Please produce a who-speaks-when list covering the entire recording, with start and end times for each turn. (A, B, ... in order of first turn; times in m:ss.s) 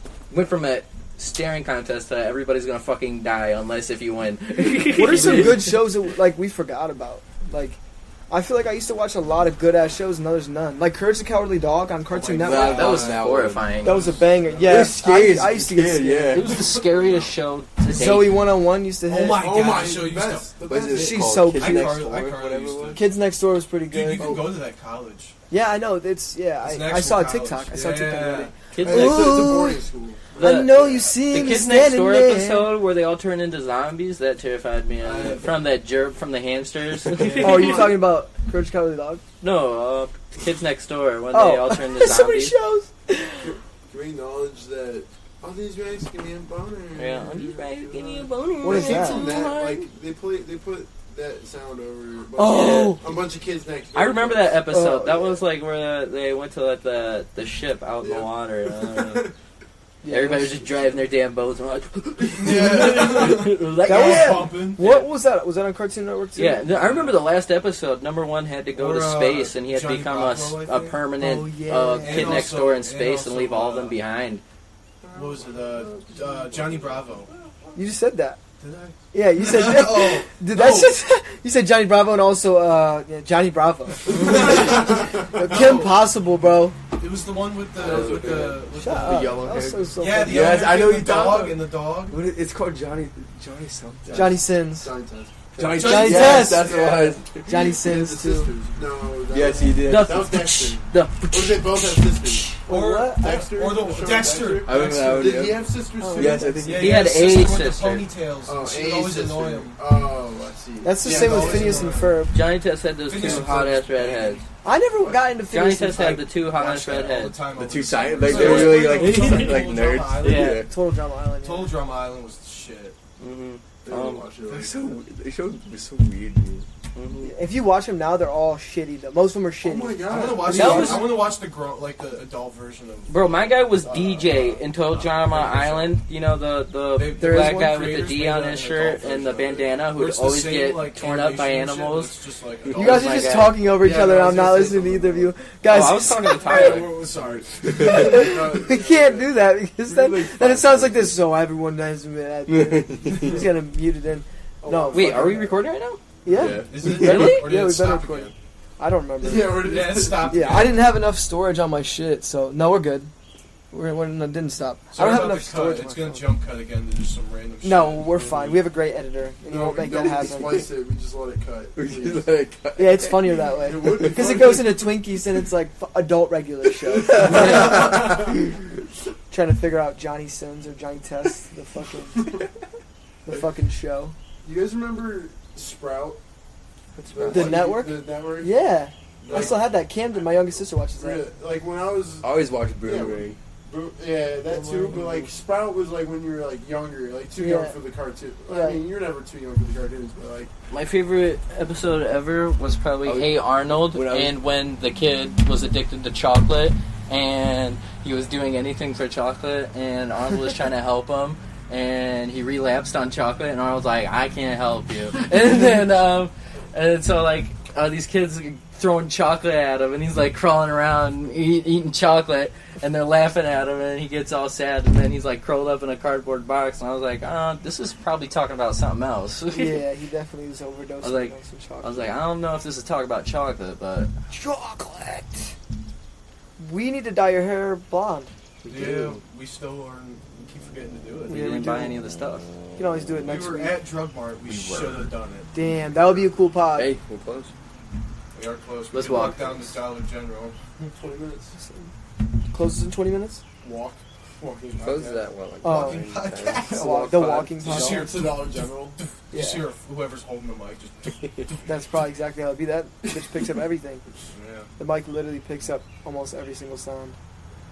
0:00.3-0:05.9 A
0:04.9-0:13.0 B
0:05.1-0:05.6 C
0:12.1-0:13.2 C
0:12.4-0:14.0 D
0:12.5-0:14.0 A
0:13.8-0:14.8 C
0:13.8-0:16.5 B
0:14.6-0:16.6 D
0:16.3-0:18.4 A
0:16.4-0:17.3 C
0:17.9-0:19.6 B
0:19.1-0:20.5 C
0:19.3-0:21.4 E
0:20.6-0:23.1 D
0:20.9-0:22.0 B
0:21.6-0:23.0 C
0:22.9-0:24.5 B
0:23.9-0:25.4 C
0:25.5-0:29.8 B
0:26.6-0:28.5 C
0:28.7-0:29.5 A
0:28.8-0:30.4 E
0:30.4-0:32.8 B
0:30.4-0:37.9 A
0:35.0-0:35.6 C
0:37.2-0:37.6 C
0:37.4-0:39.2 B
0:37.5-0:37.9 E
0:39.4-0:42.6 A
0:41.3-0:43.5 B
0:43.4-0:54.6 E
0:47.0-0:49.9 A
0:48.6-0:49.3 B
0:52.4-0:53.0 B
0:52.4-0:53.0 A
0:53.9-0:59.3 A
0:54.7-0:55.4 B
0:58.0-0:59.3 E
1:00.0-1:00.7 B
1:00.1-1:05.1 A
1:02.4-1:04.8 C
1:02.6-1:03.3 E
1:03.8-1:06.6 B
1:06.4-1:14.4 A
1:06.7-1:07.2 C
1:08.8-1:11.0 C
1:11.2-1:12.5 B
1:12.0-1:14.0 C
1:15.0-1:17.9 E
1:15.1-1:17.3 C
1:17.8-1:18.4 B
1:18.6-1:21.0 C
1:19.1-1:26.8 B
1:24.1-1:26.1 C
1:27.0-1:29.4 C
1:27.8-1:34.4 D
1:27.8-1:28.5 E
1:28.8-1:30.7 B
1:30.0-1:32.2 C
1:34.1-1:42.6 E
1:34.1-1:34.9 B
1:35.6-1:37.8 D
1:35.6-1:37.0 C
1:35.8-1:36.8 B
1:37.5-1:38.5 B
1:39.3-1:40.3 D
1:39.9-1:42.6 A
1:42.6-1:43.5 B
1:42.7-1:45.5 C
1:43.1-1:46.7 E
1:44.6-1:47.1 D
1:46.0-1:46.8 B
1:46.6-1:49.8 C
1:46.8-1:48.1 A
1:48.4-1:52.1 E
1:50.8-1:52.4 B
1:51.0-1:52.2 C
1:52.3-1:54.4 A
1:53.1-1:54.4 C
1:54.6-1:56.3 B
1:55.5-1:57.4 A
1:56.5-2:00.6 C
1:57.6-2:00.7 D
1:58.2-1:59.6 E
1:58.9-1:59.5 A
2:00.2-2:00.6 A
2:00.6-2:01.8 B
2:01.4-2:03.0 C
2:03.2-2:04.3 A
2:03.8-2:04.8 E
2:04.5-2:05.0 C
2:04.5-2:06.7 D
2:06.9-2:07.3 A
2:07.2-2:11.1 B
2:09.6-2:11.1 E
2:10.1-2:13.6 C
2:10.5-2:11.1 A
2:13.1-2:22.1 A
2:13.8-2:14.6 E
2:14.9-2:16.0 C
2:17.0-2:23.4 C
2:17.2-2:17.7 B
2:22.8-2:23.6 A
2:22.8-2:26.8 B
2:23.8-2:25.3 E
2:25.7-2:26.9 A
2:26.3-2:28.2 C
2:27.8-2:35.4 B
2:27.9-2:31.1 E
2:32.5-2:33.4 D
2:34.6-2:35.6 E
2:34.9-2:36.0 A
2:36.2-2:39.7 B
2:36.3-2:37.0 D
2:36.5-2:38.3 C
2:36.9-2:37.5 A
2:39.2-2:40.8 E
2:39.6-2:40.8 C
2:40.3-2:43.1 B
2:43.7-2:46.3 B
2:44.9-2:48.6 C
2:47.6-2:50.7 B
2:49.5-2:52.4 E
2:51.8-2:53.4 D
2:52.8-2:58.3 B
2:53.6-2:54.8 E
2:54.1-2:54.6 D
2:56.9-2:58.4 D
2:59.3-3:02.3 B
3:03.3-3:04.2 B
3:04.4-3:06.2 E
3:07.1-3:08.6 E
3:07.3-3:11.3 B
3:09.2-3:09.7 C
3:09.2-3:09.7 E
3:11.0-3:20.5 E
3:12.2-3:13.4 D
3:14.6-3:14.9 B
3:14.8-3:15.3 D
3:17.4-3:17.8 B
3:18.5-3:18.9 B
3:20.7-3:49.8 A
3:23.0-3:24.4 D
3:49.5-3:52.1 B
3:51.0-3:54.1 A
3:54.3-3:55.5 B
3:56.6-3:58.3 B
3:58.6-3:59.2 D
3:58.7-4:01.5 C
4:01.3-4:02.0 B
4:01.3-4:02.5 A
4:02.8-4:03.8 B
4:03.2-4:05.5 C
4:05.5-4:06.9 B
4:06.7-4:07.5 D
4:08.3-4:10.6 C
4:08.9-4:09.6 A
4:10.9-4:11.6 E
4:11.6-4:11.9 B
4:12.5-4:13.4 B
4:13.6-4:15.4 E
4:14.8-4:17.8 D
4:15.6-4:16.1 B
4:15.6-4:16.9 C
4:16.7-4:18.1 B
4:17.6-4:21.6 C
4:17.7-4:19.0 E
4:19.3-4:19.7 B
4:21.6-4:24.0 B
4:24.3-4:24.7 C
4:24.8-4:27.2 B